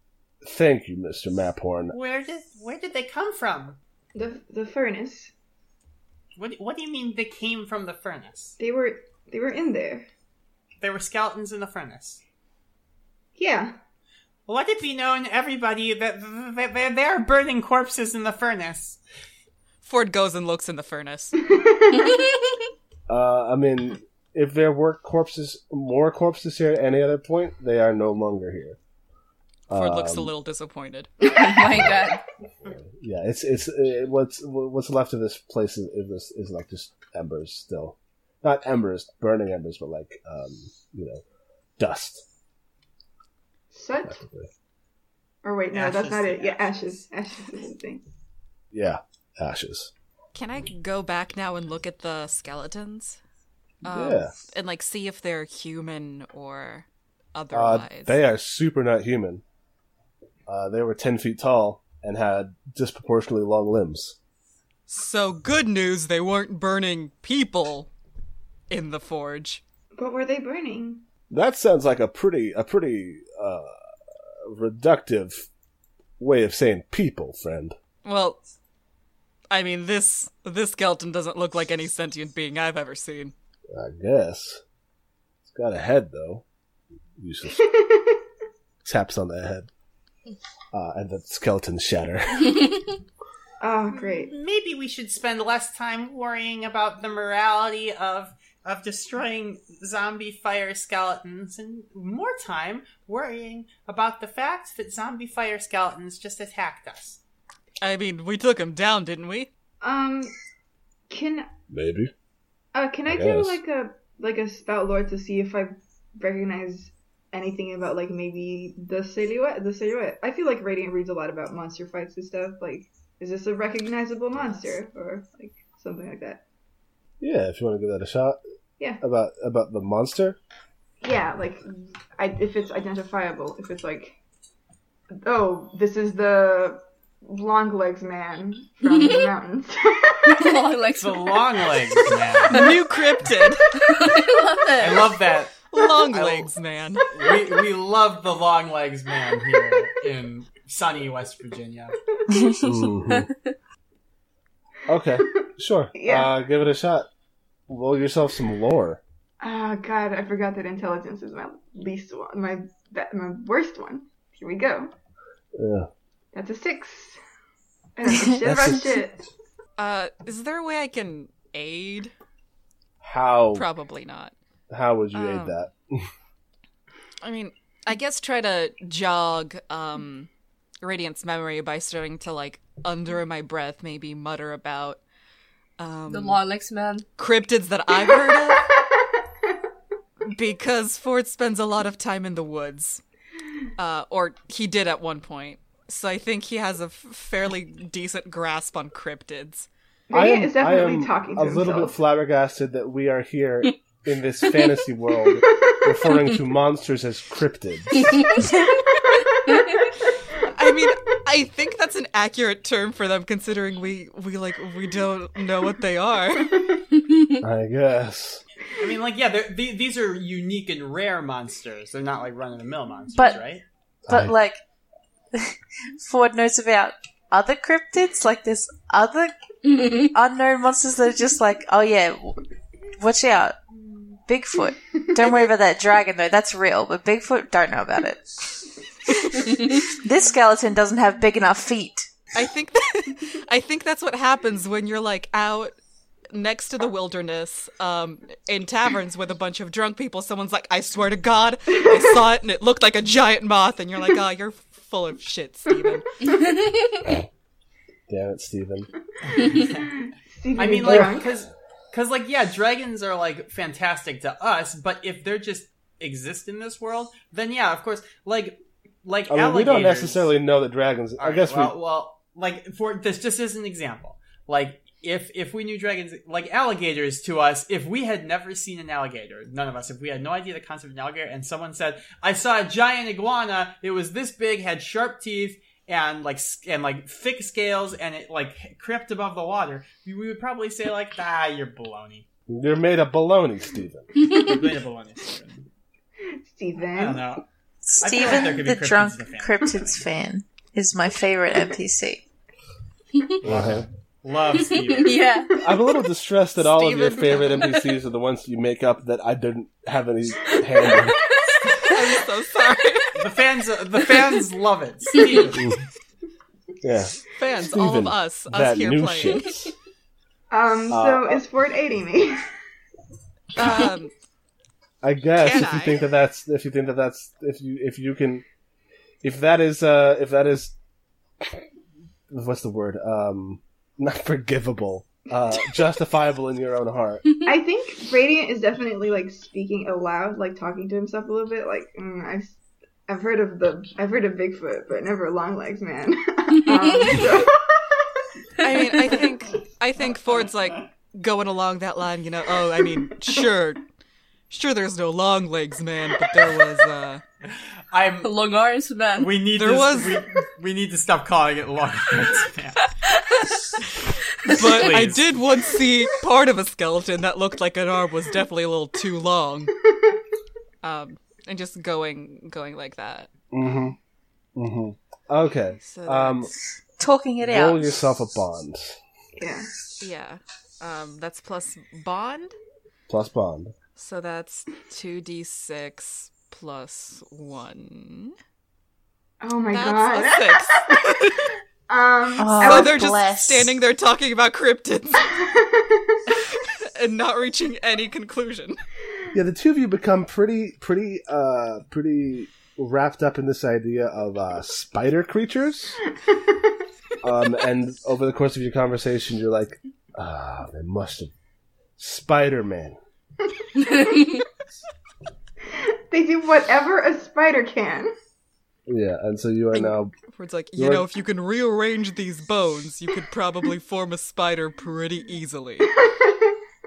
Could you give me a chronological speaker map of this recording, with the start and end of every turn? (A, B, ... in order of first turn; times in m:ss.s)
0:00.4-0:02.0 A
0:01.9-0:03.8 B
0:04.2-0:05.3 C
0:06.4-0:08.6 B
0:08.6-0:10.1 C
0:10.8-0:12.2 B
0:13.4-0:13.8 C
0:14.5-0:19.0 B
0:19.8-0:21.4 D
0:21.4-0:22.2 C
0:21.9-0:22.6 E
0:23.1-0:28.8 A
0:29.7-0:30.3 A
0:29.7-0:31.4 D
0:31.2-0:32.2 E
0:31.7-0:32.0 A
0:32.6-0:41.2 A
0:41.8-0:42.2 A
0:43.7-0:44.2 C
0:44.0-0:44.5 A
0:45.4-0:48.0 C
0:45.7-0:47.0 B
0:48.7-0:49.9 A
0:50.3-0:53.2 D
0:53.8-0:58.2 D
0:53.9-0:54.3 A
0:57.5-0:59.4 A
1:00.5-1:04.2 A
1:04.9-1:07.9 D
1:08.7-1:09.6 D
1:10.0-1:11.0 C
1:11.3-1:13.8 A
1:14.4-1:15.5 A
1:16.2-1:17.8 A
1:18.0-1:18.4 D
1:19.5-1:23.3 D
1:23.7-1:24.6 A
1:25.4-1:26.4 A
1:27.2-1:27.7 A
1:27.6-1:28.2 C
1:28.8-1:29.7 A
1:30.7-1:32.6 A
1:33.6-1:34.3 C
1:33.9-1:47.2 B
1:47.8-1:49.5 D
1:49.8-1:50.3 C
1:51.1-1:51.5 C
1:51.7-1:52.1 A
1:52.7-2:06.4 C
1:53.1-1:53.6 A
2:07.2-2:08.4 A
2:09.0-2:10.4 A
2:11.0-2:14.2 C
2:15.2-2:20.6 C
2:18.9-2:19.3 E
2:20.3-2:22.8 E
2:21.0-2:22.8 B
2:22.5-2:24.0 D
2:23.8-2:25.2 E
2:24.8-2:26.5 B
2:25.7-2:27.1 D
2:27.1-2:32.0 B
2:32.6-2:33.3 A
2:34.9-2:37.1 A
2:36.0-2:36.3 C
2:37.7-2:39.0 A
2:39.4-2:44.9 C
2:45.6-2:45.9 A
2:46.3-2:47.2 C
2:48.0-2:49.2 C
2:48.4-2:49.0 A
2:49.8-2:52.1 D
2:53.0-2:53.7 A
2:53.5-2:54.3 D
2:54.7-2:56.1 A
2:55.1-2:55.6 D
2:57.2-3:00.3 D
3:00.8-3:05.0 D
3:05.8-3:06.4 D
3:06.1-3:07.1 E
3:07.2-3:08.7 D
3:10.3-3:13.0 D
3:13.8-3:19.7 D
3:20.1-3:22.0 C
3:20.1-3:28.3 A
3:30.4-3:36.8 D
3:37.4-3:38.4 A
3:38.8-3:43.6 B
3:43.1-3:43.4 F
3:44.1-3:44.4 A
3:44.1-3:44.6 F
3:45.3-3:52.4 F
3:49.7-3:50.0 E
3:53.0-3:53.6 F
3:54.3-3:58.6 F
3:59.5-4:02.1 F
4:02.4-4:05.8 D
4:06.3-4:16.0 D
4:16.4-4:17.0 E
4:18.1-4:18.9 A
4:19.3-4:19.9 B
4:19.6-4:21.3 C
4:20.6-4:30.3 B
4:20.8-4:21.2 A
4:29.3-4:31.7 A
4:31.2-4:52.3 B
4:52.5-4:54.1 A
4:54.2-4:55.7 B
4:56.4-4:57.2 C
4:57.0-4:57.4 B
4:57.9-5:02.2 F
4:58.0-5:00.0 B
5:03.4-5:03.9 A
5:03.4-5:05.2 B
5:05.0-5:05.6 E
5:05.6-5:11.2 A
5:06.6-5:07.7 D
5:10.9-5:12.2 E
5:11.8-5:13.3 D
5:13.2-5:15.7 B
5:15.2-5:15.5 E
5:15.5-5:15.8 A
5:16.8-5:19.7 A
5:17.3-5:19.5 D
5:20.5-5:22.5 C
5:20.9-5:21.4 A
5:23.6-5:24.1 D
5:25.0-5:28.4 A
5:25.4-5:26.0 D
5:29.2-5:30.7 A
5:32.3-5:37.2 A
5:37.5-5:48.1 C
5:46.7-5:47.2 E
5:48.6-5:53.8 D
5:48.7-5:49.0 E
5:54.5-5:57.2 D
5:57.5-5:58.4 B
5:58.2-5:59.4 E
5:59.2-6:02.9 B
5:59.5-6:00.3 D
6:03.0-6:03.4 E
6:03.8-6:09.7 D
6:04.5-6:05.4 B
6:10.8-6:13.3 D
6:13.5-6:14.0 A
6:14.6-6:16.5 A
6:15.8-6:16.5 D
6:17.0-6:18.0 F
6:17.4-6:19.0 A
6:19.4-6:19.7 C
6:20.0-6:22.6 D
6:23.1-6:23.7 A
6:24.0-6:28.3 D
6:29.4-6:31.1 C
6:29.7-6:31.5 D
6:31.9-6:33.1 C
6:32.4-6:33.8 F
6:32.6-6:35.4 D
6:35.4-6:36.2 C
6:36.3-6:38.8 D
6:39.3-6:46.0 A
6:46.3-6:46.6 C
6:47.2-6:51.3 A
6:52.0-6:53.0 A
6:53.8-6:54.3 C
6:55.8-6:58.1 C
6:58.9-7:00.1 A
6:59.7-7:05.9 D
7:00.8-7:01.1 A
7:06.0-7:06.6 C